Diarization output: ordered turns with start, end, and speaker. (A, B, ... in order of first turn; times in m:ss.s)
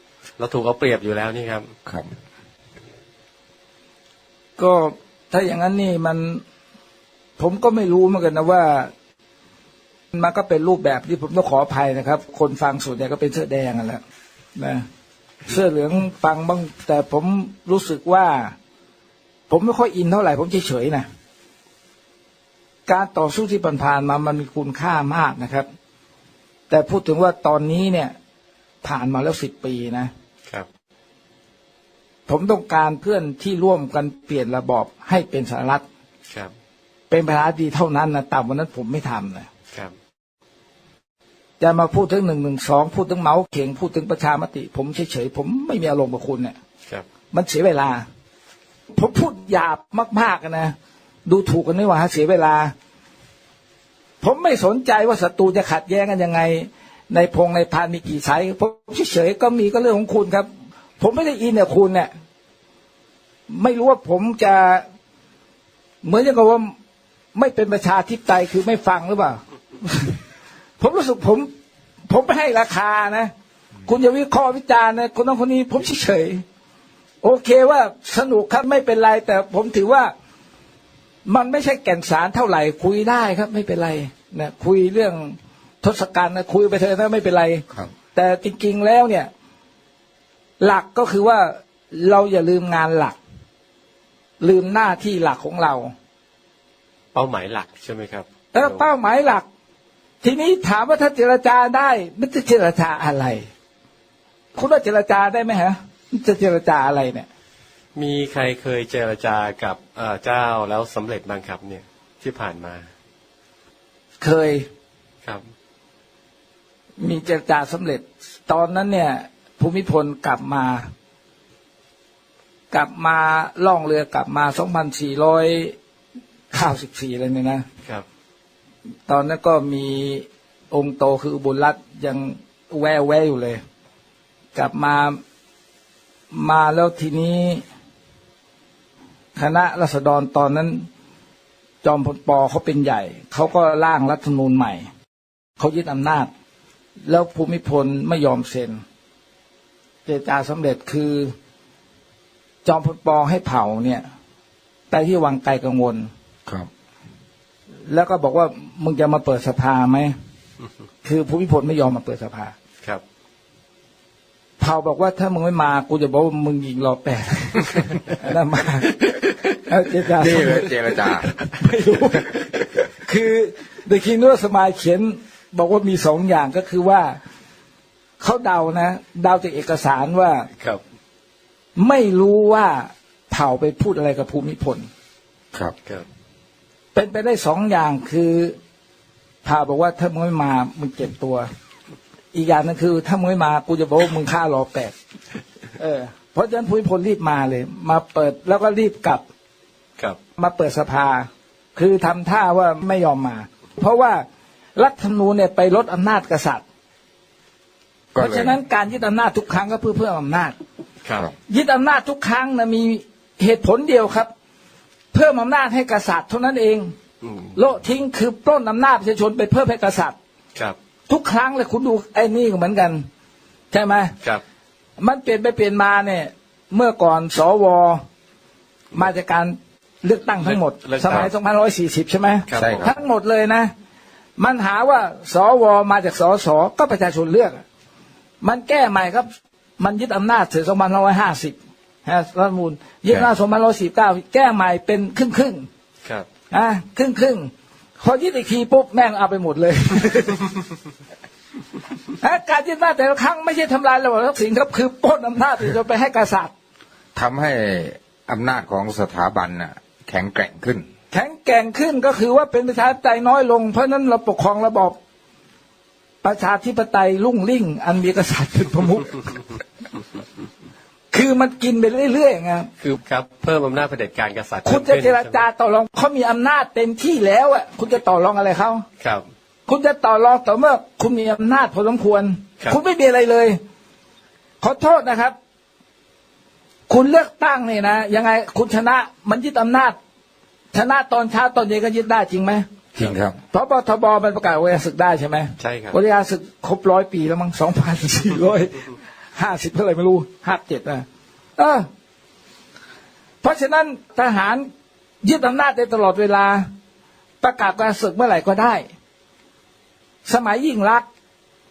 0:00.4-0:01.7 A
0:04.6-0:06.4 B
0:07.4-0:08.9 B
0:10.1-0:14.0 B
0:14.6-0:14.9 B
0:15.5-0:18.5 B
0:19.5-0:21.1 B
0:22.9-0:25.7 B
0:26.7-0:28.1 B
0:28.8-0:30.1 B
0:32.3-0:35.8 B
0:37.1-0:39.5 B
0:41.6-0:46.6 B
0:47.3-0:48.0 B
0:48.9-0:50.7 B
0:51.3-0:52.7 B
0:54.2-1:00.5 B
1:01.0-1:02.1 B
1:03.5-1:04.8 B
1:06.0-1:06.7 B
1:07.4-1:10.2 B
1:10.8-1:11.5 B
1:12.1-1:13.3 B
1:13.8-1:16.4 B
1:17.2-1:20.1 B
1:21.2-1:29.3 B
1:30.6-1:33.2 B
1:34.4-1:35.9 B
1:37.1-1:38.9 A
1:38.5-1:39.4 B
1:40.2-1:43.5 B
1:44.6-1:47.3 B
1:48.0-1:52.9 A
1:54.2-1:54.7 B
1:57.0-2:00.8 B
2:02.7-2:05.8 B
2:06.5-2:07.6 B
2:09.1-2:13.6 B
2:14.6-2:15.2 B
2:16.3-2:17.6 B
2:19.4-2:20.9 B
2:21.8-2:24.9 B
2:25.6-2:26.3 B
2:27.1-2:28.8 B
2:30.1-2:31.3 B
2:32.6-2:34.0 B
2:34.9-2:36.1 B
2:37.9-2:40.1 B
2:41.0-2:42.5 B
2:44.6-2:49.0 B
2:49.7-2:57.2 B
2:50.2-2:51.4 C
2:58.2-3:00.5 B
3:01.8-3:04.9 B
3:07.0-3:08.6 B
3:09.4-3:11.5 B
3:12.3-3:14.9 B
3:15.8-3:19.2 B
3:20.4-3:24.2 B
3:24.8-3:26.6 B
3:28.1-3:28.6 C
3:28.2-3:30.6 B
3:31.0-3:31.3 A
3:31.5-3:34.3 B
3:35.1-3:36.9 B
3:37.2-3:37.5 A
3:37.6-3:40.2 B
3:41.1-3:43.0 B
3:43.7-3:44.1 B
3:45.0-3:48.0 B
3:48.9-3:53.7 B
3:50.4-3:51.3 A
3:52.5-3:52.9 A
3:52.6-3:52.9 C
3:54.4-3:57.6 B
3:58.4-3:59.3 B
3:59.8-4:05.7 B
4:06.5-4:10.5 B
4:12.2-4:16.5 B
4:17.2-4:20.9 C
4:21.1-4:25.0 B
4:26.2-4:29.3 B
4:31.1-4:32.7 B
4:32.8-4:35.4 A
4:34.6-4:38.8 B
4:39.7-4:43.6 B
4:44.6-4:45.3 B
4:46.9-4:50.0 B
4:50.7-4:52.7 B
4:53.0-4:53.4 C
4:53.5-5:01.0 B
4:55.6-4:56.0 A
5:01.6-5:01.9 B
5:03.4-5:04.7 B
5:05.2-5:06.6 B
5:07.4-5:08.9 B
5:10.2-5:11.1 B